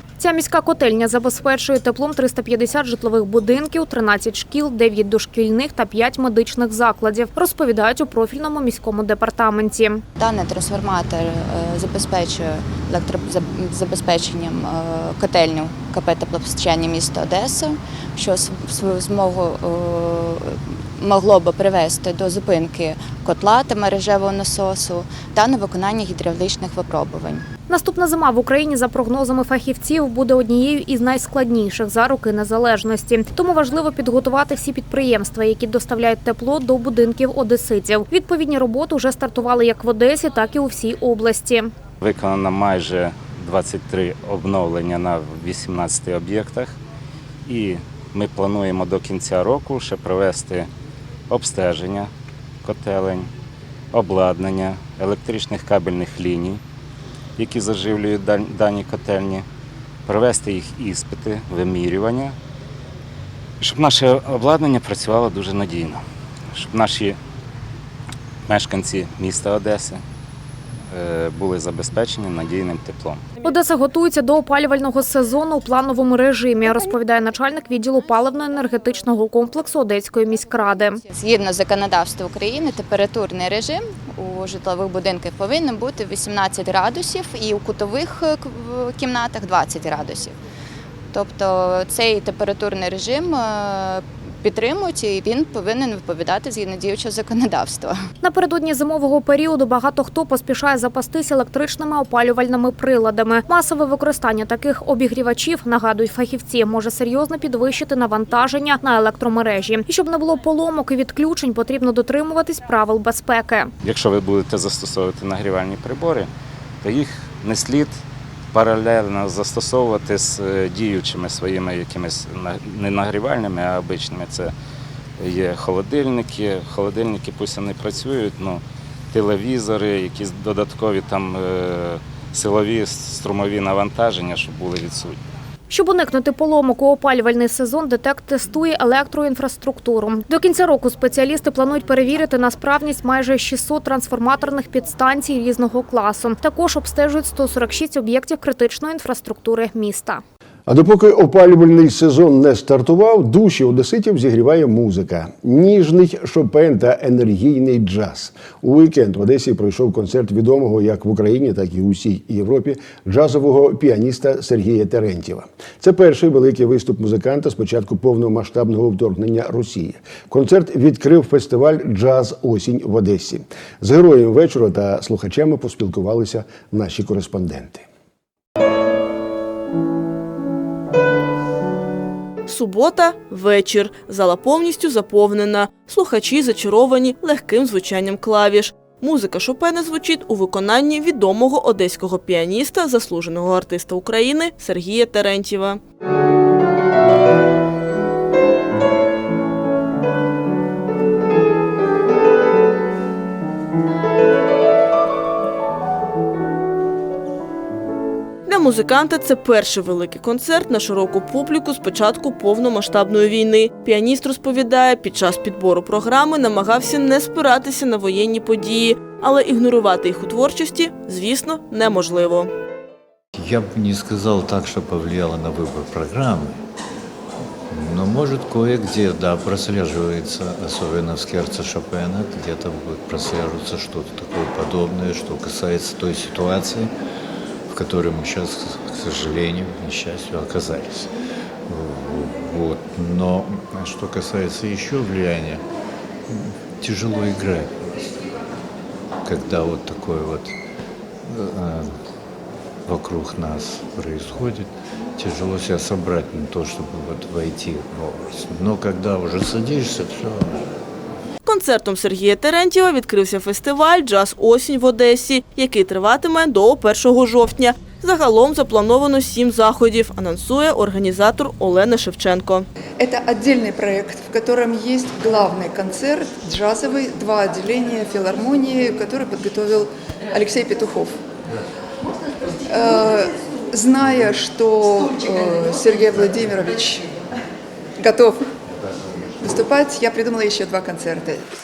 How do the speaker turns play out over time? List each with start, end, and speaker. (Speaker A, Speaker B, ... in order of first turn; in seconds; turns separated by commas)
Speaker A: 0.2-10.0, Speaker B: 10.2-27.5, Speaker A: 27.7-41.7, Speaker C: 42.0-46.8, Speaker C: 47.5-50.7, Speaker C: 51.3-52.1, Speaker C: 52.6-53.3, Speaker C: 53.9-56.6, Speaker C: 57.4-59.5, Speaker C: 60.0-62.4, Speaker C: 63.6-66.0, Speaker C: 66.5-67.2, Speaker C: 68.5-70.0, Speaker C: 70.9-73.2, Speaker A: 73.4-81.0, Speaker B: 81.1-90.4, Speaker B: 91.1-98.0, Speaker A: 98.2-113.7, Speaker C: 113.8-116.3, Speaker C: 116.8-118.0, Speaker C: 118.5-124.5, Speaker C: 125.2-135.2, Speaker A: 135.7-150.2, Speaker D: 150.7-177.8, Speaker E: 182.5-195.8, Speaker E: 208.5-222.5, Speaker F: 223.3-226.6, Speaker F: 227.7-236.9, Speaker F: 237.7-241.1, Speaker F: 241.7-245.6, Speaker F: 246.3-248.2, Speaker F: 249.2-250.6, Speaker F: 251.2-252.0, Speaker F: 252.9-260.7, Speaker E: 261.4-272.7, Speaker G: 273.0-281.2, Speaker G: 282.6-287.2, Speaker G: 288.0-288.5, Speaker G: 289.4-291.5